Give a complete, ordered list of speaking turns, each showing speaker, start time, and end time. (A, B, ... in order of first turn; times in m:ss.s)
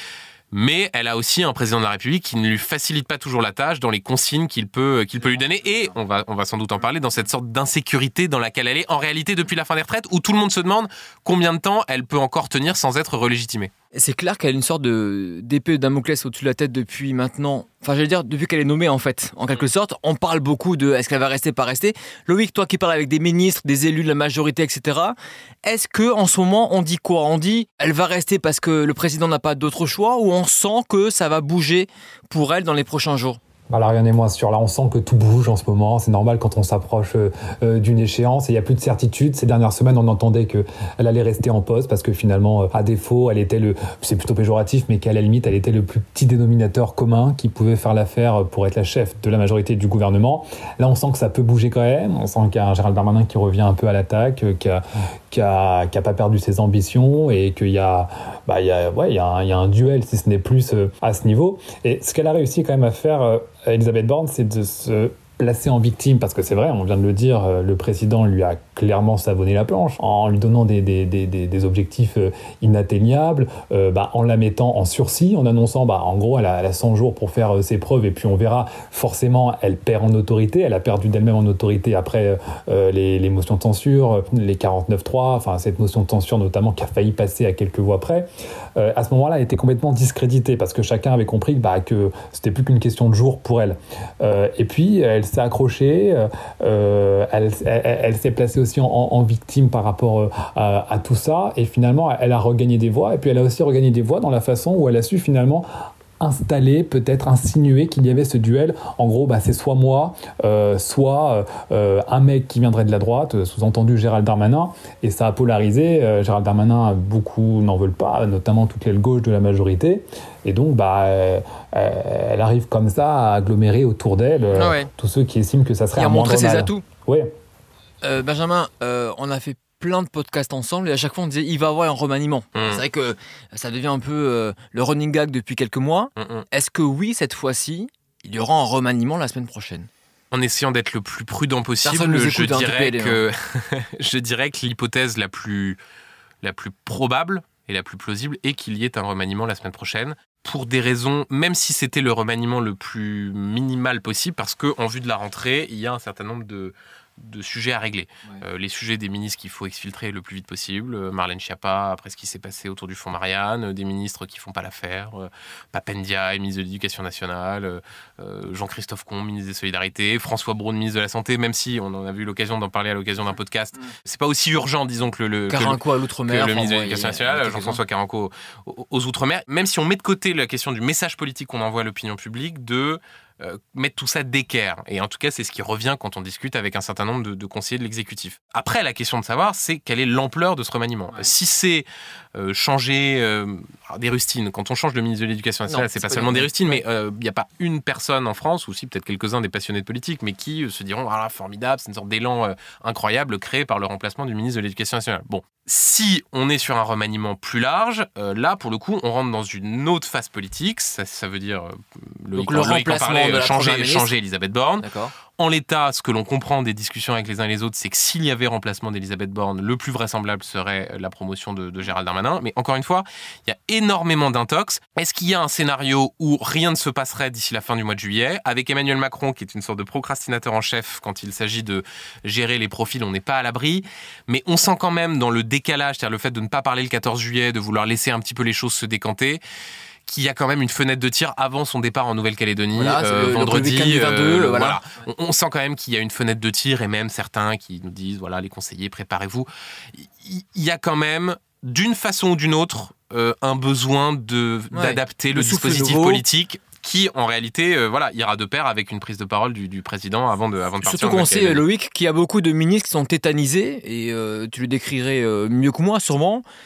0:00.5-0:13.7 A
0:13.9-0:33.4 B
0:33.7-0:54.8 C
0:55.3-1:45.7 C
1:46.2-2:07.3 C
2:04.5-2:04.9 B
2:05.9-2:06.8 B
2:08.0-2:19.9 B
2:12.6-2:12.8 A
2:16.2-2:16.4 A
2:20.3-2:25.8 A
2:21.8-2:23.2 B
2:26.4-3:59.4 A
2:55.5-2:57.8 B
3:15.7-3:16.8 B
3:32.4-3:34.1 B
3:34.8-3:35.1 B
4:00.1-4:21.6 A
4:02.7-4:04.8 B
4:14.7-4:16.2 B
4:20.8-4:26.4 B